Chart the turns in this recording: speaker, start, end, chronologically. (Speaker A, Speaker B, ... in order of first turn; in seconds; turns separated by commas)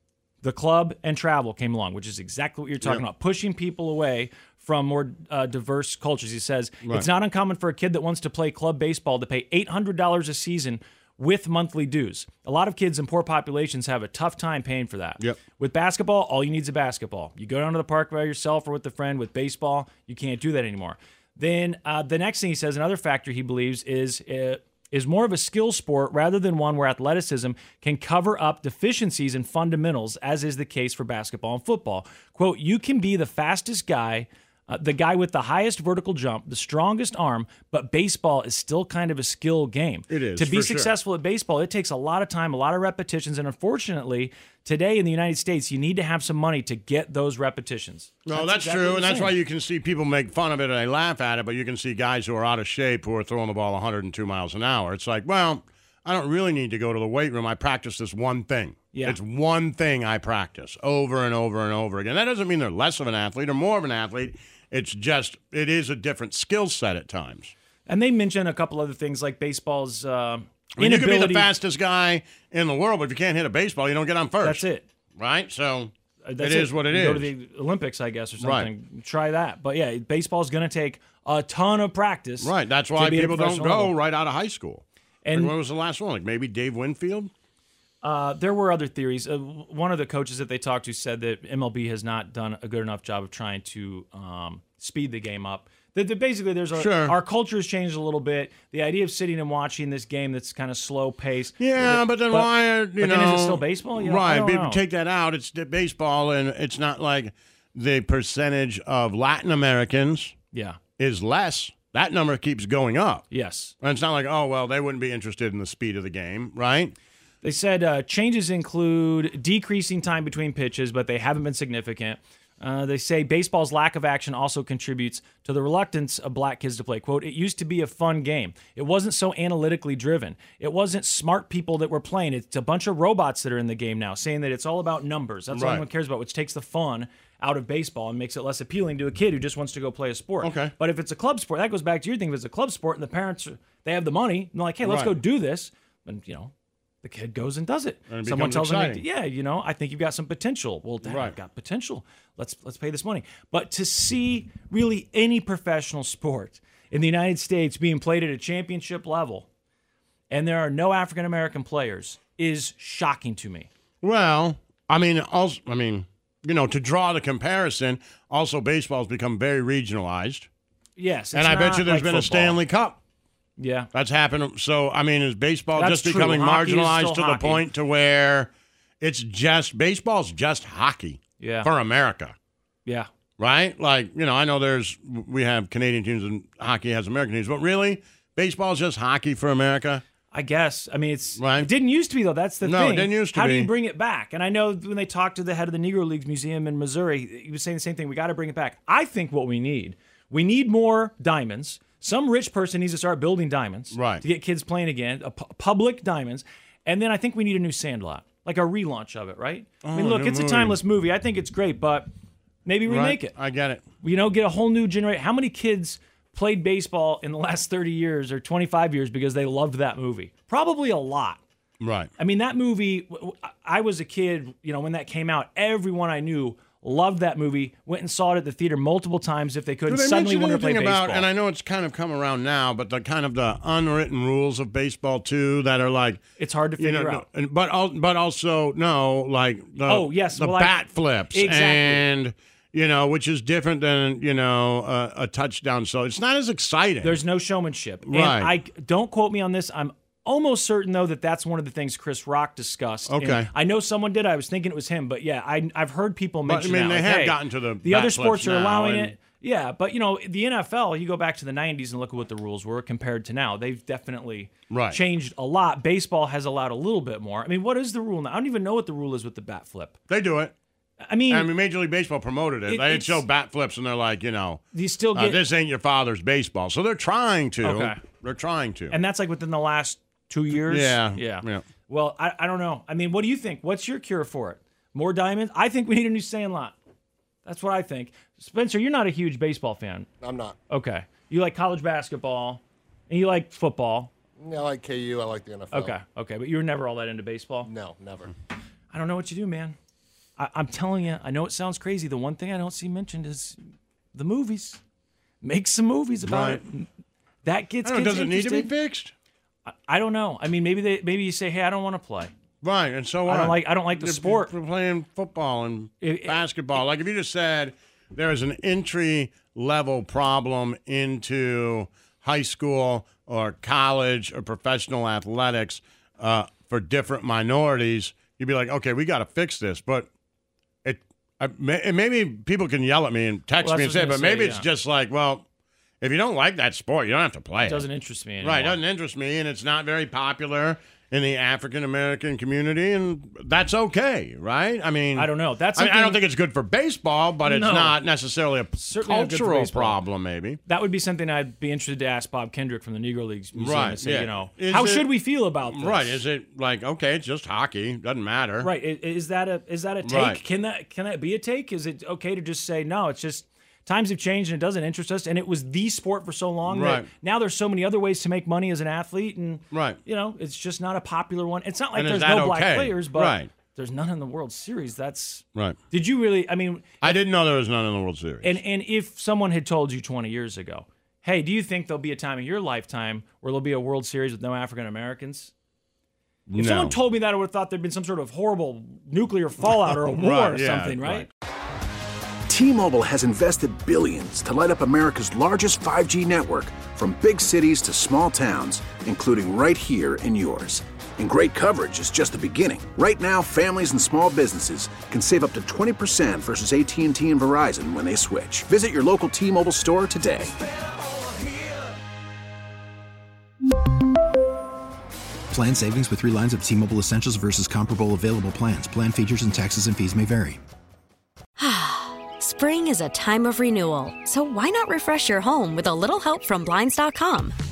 Speaker A: 0.4-49.3, Speaker B: 40.1-40.9, Speaker B: 48.2-67.5, Speaker A: 58.9-59.2, Speaker A: 67.9-71.5, Speaker B: 70.8-74.6, Speaker A: 74.4-74.9, Speaker B: 75.2-77.3, Speaker A: 76.2-84.0, Speaker B: 78.4-78.7, Speaker B: 82.4-87.3, Speaker A: 85.2-85.5, Speaker A: 88.0-104.8, Speaker B: 96.7-97.2, Speaker B: 101.6-110.3, Speaker A: 110.5-110.8, Speaker B: 111.0-113.2, Speaker A: 113.3-113.7, Speaker B: 113.8-117.0, Speaker A: 117.4-146.5, Speaker B: 135.5-135.8, Speaker B: 140.4-140.7, Speaker B: 144.8-145.2, Speaker A: 147.0-159.5, Speaker B: 148.1-149.0, Speaker B: 151.0-151.3, Speaker A: 160.3-163.7, Speaker B: 164.0-170.5, Speaker A: 171.0-172.6, Speaker B: 171.3-173.0, Speaker A: 173.6-173.9, Speaker B: 173.9-178.5, Speaker A: 175.8-177.7, Speaker B: 179.0-182.3, Speaker A: 181.4-181.7, Speaker A: 182.8-183.1, Speaker B: 183.4-190.0, Speaker A: 190.3-212.1, Speaker B: 191.4-191.7, Speaker B: 192.6-193.7, Speaker B: 203.9-204.2, Speaker B: 209.8-210.8, Speaker A: 212.6-213.3, Speaker B: 212.8-213.8, Speaker A: 214.0-221.4, Speaker B: 221.8-222.1, Speaker A: 222.2-231.3, Speaker B: 229.9-236.2, Speaker A: 236.4-237.2, Speaker B: 236.8-247.2, Speaker A: 239.8-242.0, Speaker A: 247.0-270.0, Speaker B: 248.1-248.5, Speaker B: 253.1-253.5, Speaker B: 256.4-259.1, Speaker B: 264.7-265.0, Speaker B: 270.1-270.5, Speaker A: 271.0-271.5, Speaker B: 271.3-278.9, Speaker A: 272.7-273.2, Speaker A: 274.7-275.4, Speaker A: 277.6-278.0, Speaker A: 278.9-286.8, Speaker B: 280.6-281.6, Speaker A: 287.4-290.1, Speaker C: 290.2-290.6, Speaker A: 290.7-294.1, Speaker C: 294.4-295.9, Speaker A: 295.7-297.7, Speaker C: 297.6-298.3, Speaker A: 298.9-299.8, Speaker A: 300.4-303.6, Speaker A: 304.1-304.8, Speaker A: 305.4-306.9, Speaker B: 306.2-306.6, Speaker A: 307.4-308.7, Speaker B: 307.8-309.1, Speaker A: 309.9-312.3, Speaker B: 312.6-330.1, Speaker A: 313.2-314.5, Speaker A: 316.0-316.4, Speaker B: 330.8-335.4, Speaker A: 333.6-334.7, Speaker B: 336.0-337.9, Speaker A: 337.6-338.8, Speaker B: 338.4-350.6, Speaker A: 345.1-346.2, Speaker A: 347.4-348.0, Speaker A: 348.8-350.0, Speaker A: 350.7-356.2, Speaker B: 353.5-358.7, Speaker A: 358.6-377.1, Speaker B: 360.0-360.4, Speaker B: 366.6-367.1, Speaker B: 369.7-370.0, Speaker B: 371.9-373.5, Speaker B: 377.0-378.6, Speaker A: 378.4-385.5, Speaker B: 386.5-387.0, Speaker A: 386.6-391.3, Speaker B: 389.7-391.3, Speaker D: 392.5-410.5, Speaker E: 415.5-420.6, Speaker F: 421.6-427.5